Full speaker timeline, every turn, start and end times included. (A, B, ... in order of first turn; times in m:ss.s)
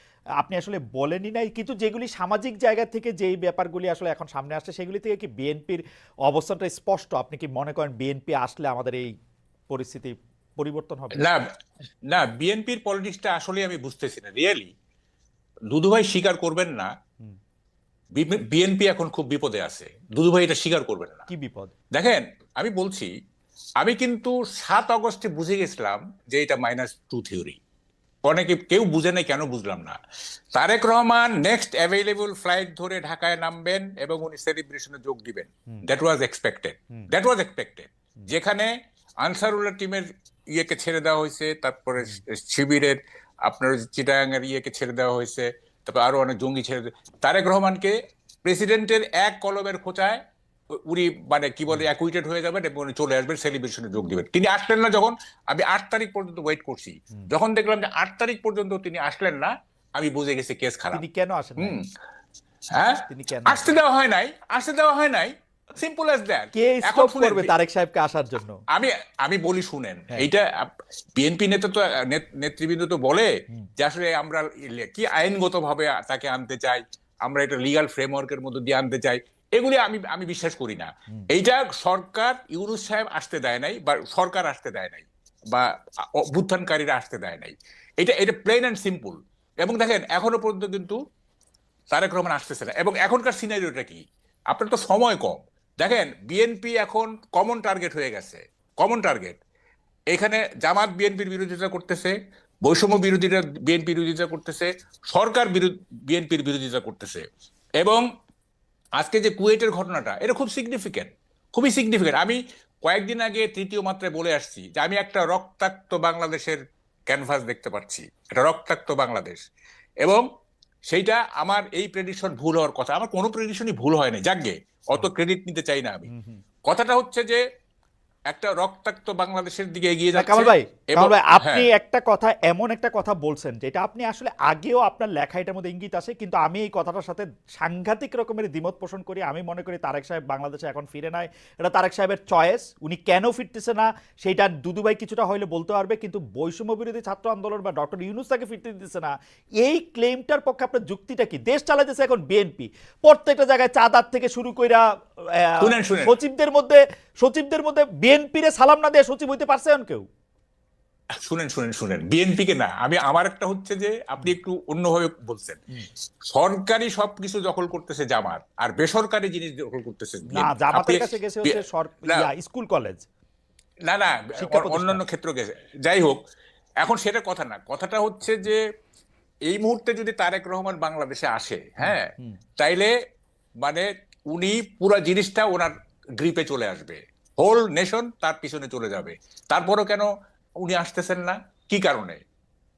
0:00.4-0:09.1 A
0:09.7-0:11.2 A
0:11.1-0:11.4 B
0:12.1-0:14.7 B
0:15.7-0:16.9 B
0:18.1-0:21.2 B
0:21.3-0:21.7 A
0:21.9-0:23.1 B
0:23.8-0:27.6 B
0:28.3-0:30.0 B
0:30.5-0:50.2 B
0:50.7-1:01.0 B
1:00.9-1:01.8 A
1:01.6-1:01.8 B
1:02.7-1:07.5 B
1:03.1-1:03.7 A
1:06.5-1:08.6 A
1:08.7-1:31.0 B
1:31.9-1:39.4 B
1:40.1-1:47.2 B
1:47.8-1:48.0 B
1:49.0-1:59.4 B
2:00.9-2:06.1 B
2:06.1-2:06.4 A
2:06.7-2:07.4 B
2:08.3-2:11.7 B
2:10.1-2:40.0 A
2:35.6-2:36.1 B
2:41.2-2:45.6 B
2:46.3-2:52.2 B
2:50.3-2:53.0 A
2:53.8-2:56.2 B
2:54.3-2:55.0 A
2:56.8-2:58.6 B
2:59.4-3:02.9 B
3:01.8-3:02.4 A
3:03.6-3:10.1 B
3:10.6-3:12.2 B